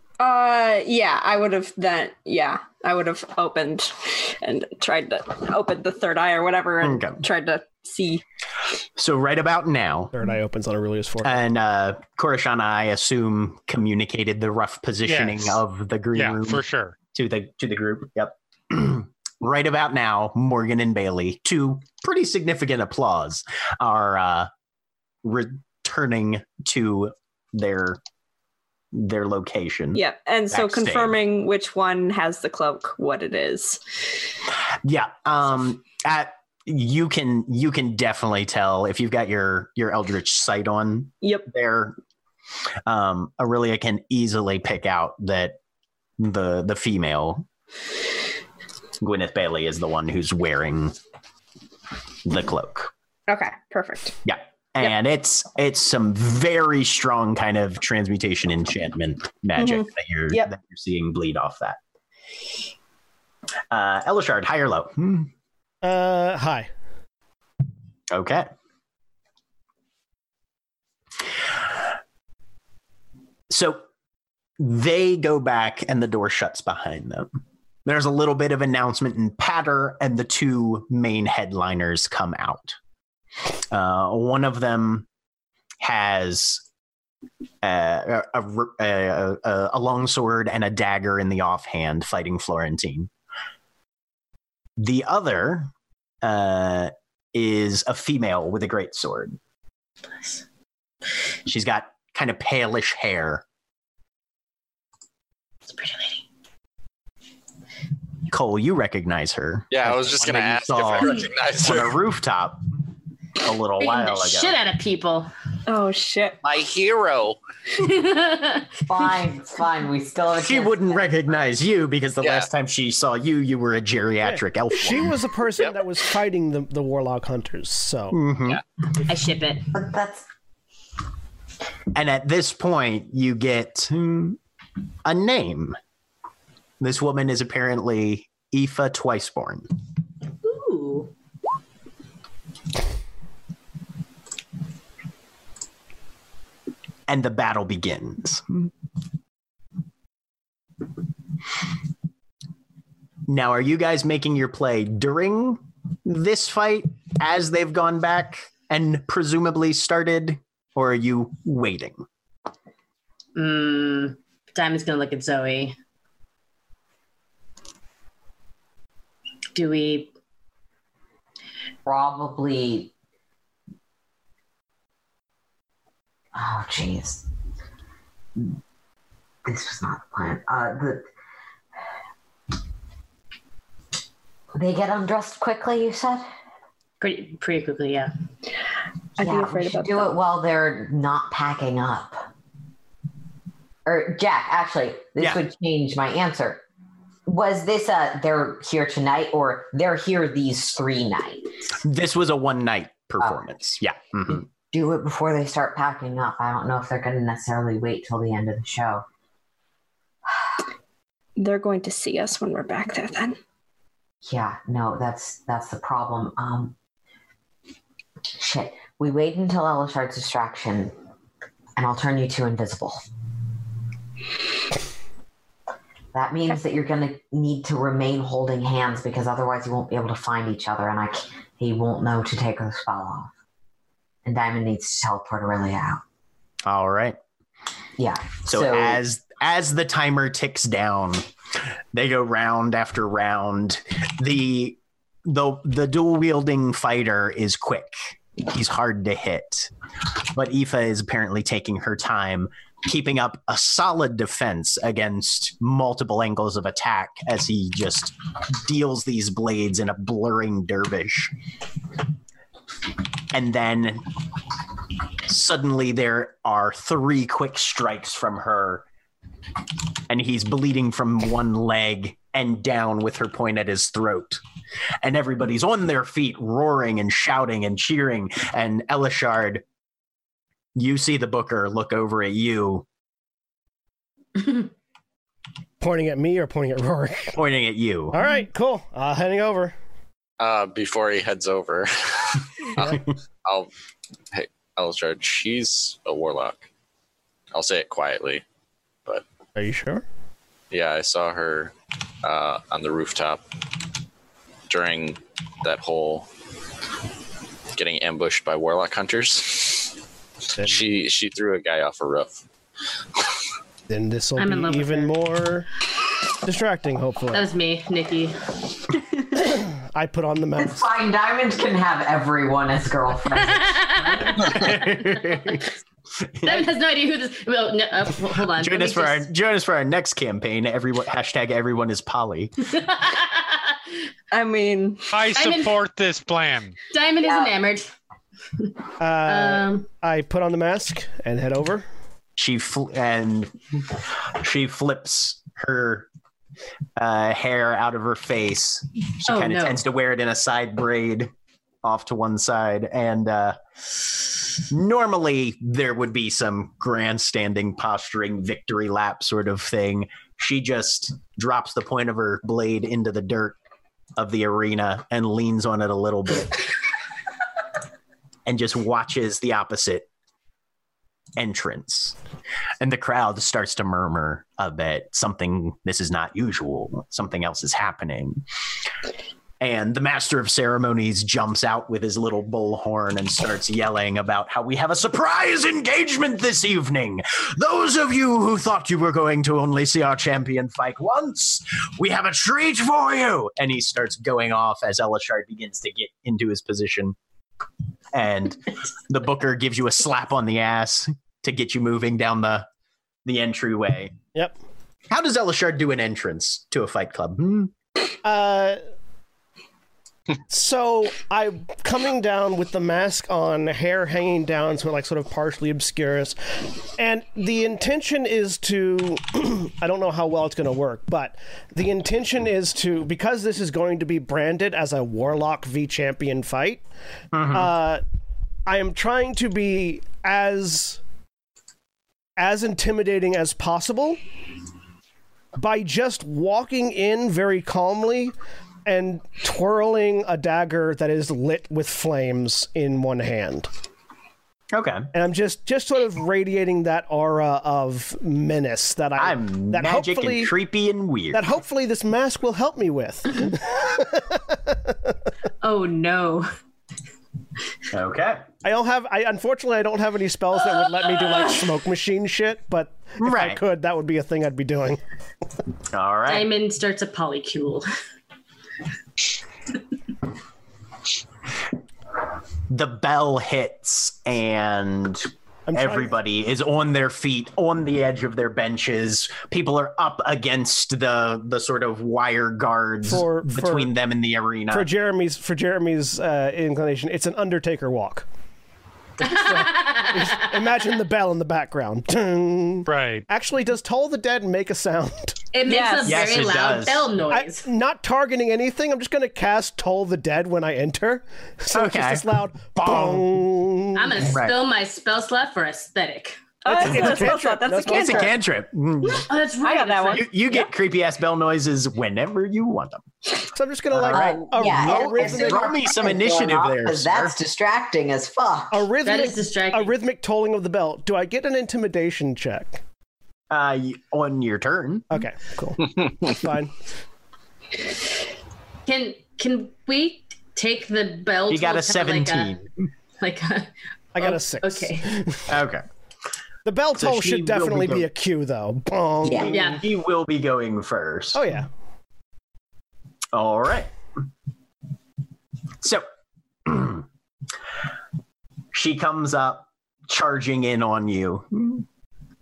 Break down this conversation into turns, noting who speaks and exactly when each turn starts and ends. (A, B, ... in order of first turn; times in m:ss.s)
0:00.2-0:08.2 A
0:06.8-0:07.3 B
0:09.0-0:10.1 B
0:10.1-0:11.4 C
0:11.2-0:16.6 B
0:15.0-0:15.6 D
0:16.2-0:17.0 D
0:17.1-0:24.5 B
0:25.2-0:28.0 B
0:28.9-0:31.2 B
0:30.0-0:33.8 A
0:34.5-0:42.0 B
0:42.9-0:45.6 B
0:46.2-0:47.5 B
0:49.0-0:51.0 B
0:52.2-0:52.9 B
0:53.3-0:54.2 A
0:54.2-1:01.8 B
0:59.6-1:00.5 A
1:03.7-1:05.3 B
1:05.8-1:06.7 C
1:08.1-1:08.5 B
1:13.5-1:13.8 B
1:14.6-1:22.8 B
1:23.7-1:25.1 B
1:25.8-1:26.6 B
1:27.6-1:33.1 B
1:34.8-1:35.7 B
1:36.2-1:39.4 B
1:41.5-1:43.4 B
1:45.7-1:46.2 E
1:48.3-1:52.6 B
1:49.7-1:52.0 F
1:53.4-1:54.6 B
1:53.8-1:55.3 E
1:55.7-1:56.4 A
1:56.4-1:57.4 F
1:57.8-1:59.1 E
1:58.9-2:01.0 G
2:00.4-2:05.1 B
2:02.2-2:02.5 F
2:04.2-2:08.2 C
2:08.1-2:08.6 B
2:09.0-2:09.7 E
2:09.7-2:10.3 G
2:11.9-2:14.4 B
2:15.0-2:15.8 B
2:16.8-2:19.7 B
2:20.4-2:21.1 E
2:27.1-2:28.7 B
2:33.3-2:42.1 B
2:43.4-2:45.8 E
2:49.6-2:50.1 E
2:51.9-2:52.9 G
2:56.3-2:57.3 G
2:59.4-3:01.0 G
3:04.6-3:06.3 G
3:07.0-3:08.1 E
3:09.2-3:10.1 A
3:09.2-3:12.3 G
3:13.9-3:16.6 G
3:17.3-3:21.6 G
3:21.8-3:24.5 B
3:24.7-3:29.0 G
3:31.4-3:33.4 A
3:34.2-3:36.8 G
3:38.4-3:40.9 G
3:41.8-3:43.1 G
3:46.1-3:53.3 G
3:54.2-3:56.0 G
3:56.7-3:57.2 B
3:58.0-3:59.0 G
3:58.4-4:01.2 B
4:01.9-4:21.3 B
4:23.3-4:24.0 B
4:25.3-4:28.9 B
4:30.1-4:34.4 B
4:35.0-4:39.6 B
4:40.8-4:42.9 B
4:44.4-4:44.7 E
4:45.8-4:47.4 C
4:47.4-4:48.2 B
4:48.1-4:49.8 C
4:50.4-4:53.7 F
4:54.3-4:56.7 F
4:57.5-4:58.4 F
4:59.6-5:00.0 C
5:00.7-5:03.4 F
5:04.7-5:06.3 F
5:07.8-5:10.0 F
5:10.6-5:12.4 F
5:13.9-5:15.7 C
5:14.4-5:15.2 E
5:16.4-5:17.5 C
5:17.3-5:18.6 E
5:19.5-5:20.8 C
5:20.6-5:24.2 G
5:23.4-5:25.6 E
5:24.4-5:26.7 B
5:26.4-5:29.2 E
5:28.5-5:32.7 B
5:32.7-5:34.0 E
5:34.3-5:35.1 A
5:35.1-5:36.8 D
5:35.3-5:35.8 E
5:36.9-5:37.9 E
5:39.0-5:41.9 C
5:39.2-5:39.9 E
5:42.4-5:46.1 B
5:47.0-5:51.3 B
5:49.3-5:49.8 E
5:51.8-5:53.6 B
5:54.1-6:03.6 B
6:04.2-6:06.6 B
6:08.5-6:10.1 B
6:11.4-6:12.2 B
6:12.8-6:18.4 B
6:19.6-6:37.2 B
6:38.1-6:42.7 B
6:43.2-6:44.1 B
6:45.1-6:47.7 B
6:48.2-6:48.8 C
6:50.5-6:56.4 C
6:57.0-7:06.8 C
7:07.3-7:07.7 B
7:07.5-7:08.0 C
7:08.7-7:11.0 C
7:12.4-7:14.2 C
7:15.6-7:18.4 C
7:18.9-7:23.7 C
7:24.7-7:25.1 B
7:25.1-7:30.5 C
7:29.2-7:31.4 B
7:31.3-7:35.0 C
7:35.6-7:36.5 E
7:37.9-7:38.4 B
7:38.6-7:45.0 C
7:43.2-7:43.6 B
7:45.9-7:46.5 B
7:46.3-7:47.9 E
7:52.7-8:04.9 B
7:55.7-7:56.1 C
8:03.1-8:03.9 C
8:04.7-8:08.3 C
8:09.2-8:15.4 C
8:09.2-8:10.5 E
8:12.9-8:13.2 D
8:15.5-8:17.6 E
8:15.6-8:16.3 A
8:16.0-8:17.1 B
8:17.3-8:24.3 C
8:21.7-8:23.4 B
8:24.0-8:26.5 E
8:24.3-8:24.6 B
8:26.6-8:28.3 A
8:26.7-8:28.3 C
8:26.9-8:29.3 B
8:29.3-8:30.3 E
8:29.6-8:30.7 A
8:30.1-8:33.0 B
8:33.5-8:35.7 C
8:33.9-8:37.4 B
8:34.0-8:38.9 G
8:38.7-8:42.8 C
8:39.0-8:39.9 E
8:43.5-8:45.1 B
8:45.1-8:46.8 C
8:48.9-8:52.5 E
8:51.5-8:52.7 B
8:53.2-8:55.2 E
8:54.2-8:55.5 C
8:55.5-8:55.8 B
8:56.6-8:59.8 C
8:56.9-8:58.1 B
8:59.2-8:59.5 G
8:59.5-8:59.8 E
8:59.5-9:01.5 B
9:01.3-9:01.7 C
9:03.3-9:03.9 B
9:05.8-9:06.1 B
9:06.6-9:07.1 B
9:08.7-9:11.9 B